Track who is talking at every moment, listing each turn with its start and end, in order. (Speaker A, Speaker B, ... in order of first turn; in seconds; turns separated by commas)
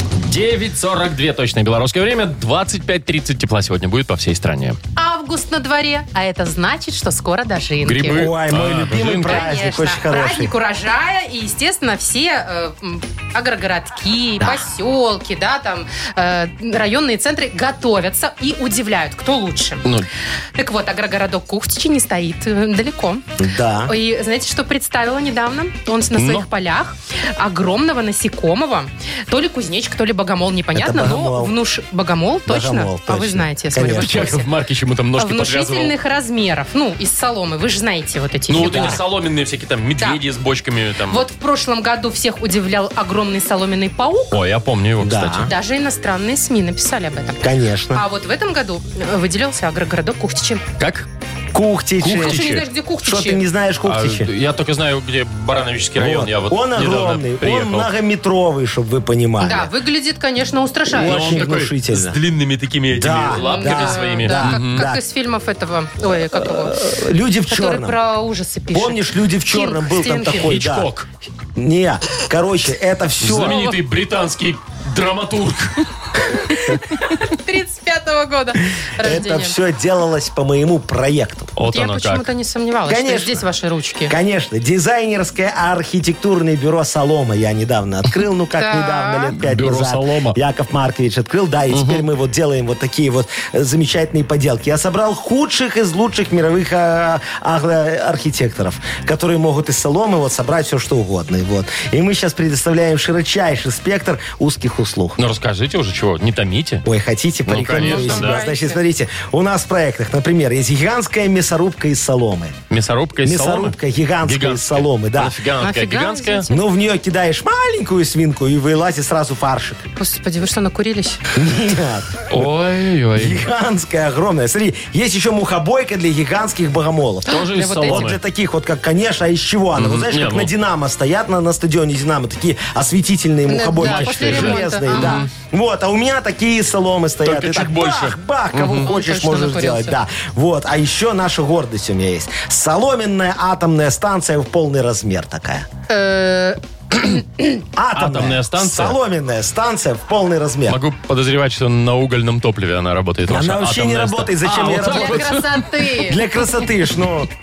Speaker A: 0.3-4.8, Speaker B: 5.0-8.3, Speaker A: 7.8-9.5, Speaker C: 8.1-10.5, Speaker B: 9.2-19.8, Speaker B: 20.6-23.2, Speaker C: 23.4-23.9, Speaker B: 23.9-34.5, Speaker A: 26.1-26.4, Speaker C: 30.7-31.6, Speaker C: 32.5-34.4, Speaker A: 33.8-35.9, Speaker B: 35.2-39.0, Speaker A: 38.5-41.2, Speaker C: 38.5-39.0, Speaker B: 41.1-44.3, Speaker A: 44.3-45.5, Speaker C: 45.0-45.5, Speaker B: 45.5-50.6, Speaker C: 47.4-48.0, Speaker A: 50.8-51.0, Speaker C: 51.5-52.5, Speaker A: 52.0-52.6, Speaker B: 52.2-53.4, Speaker C: 53.0-54.3, Speaker A: 53.8-57.9, Speaker C: 56.0-59.7, Speaker B: 59.4-61.5, Speaker C: 60.9-62.2, Speaker A: 61.0-64.8, Speaker C: 62.9-65.0, Speaker B: 63.4-66.8, Speaker C: 66.3-68.0, Speaker B: 67.5-70.6, Speaker C: 68.7-70.9, Speaker A: 70.3-71.0, Speaker C: 71.5-73.7, Speaker A: 73.2-75.8, Speaker B: 73.5-73.7, Speaker B: 76.3-79.5, Speaker C: 79.0-81.5, Speaker A: 81.5-82.3, Speaker B: 81.7-84.2, Speaker C: 82.8-83.5, Speaker C: 84.1-105.2, Speaker B: 88.5-89.3, Speaker A: 89.4-90.3, Speaker A: 91.7-92.0, Speaker A: 105.2-106.8, Speaker C: 106.8-112.6, Speaker A: 107.5-108.4, Speaker B: 107.8-108.8, Speaker A: 112.7-116.5, Speaker C: 113.2-115.4, Speaker B: 115.6-116.7, Speaker C: 116.5-119.8, Speaker B: 120.0-121.2, Speaker C: 121.3-122.3, Speaker A: 122.3-123.5, Speaker C: 123.1-145.7, Speaker A: 127.3-128.2, Speaker B: 127.3-128.1, Speaker A: 129.8-130.5, Speaker B: 133.5-135.2, Speaker A: 133.8-135.3, Speaker A: 137.2-138.9, Speaker B: 138.8-140.0, Speaker B: 145.9-147.6, Speaker C: 147.8-150.8, Speaker A: 147.9-149.0, Speaker A: 150.7-155.6, Speaker C: 153.3-155.4, Speaker B: 154.8-156.2, Speaker C: 156.0-157.3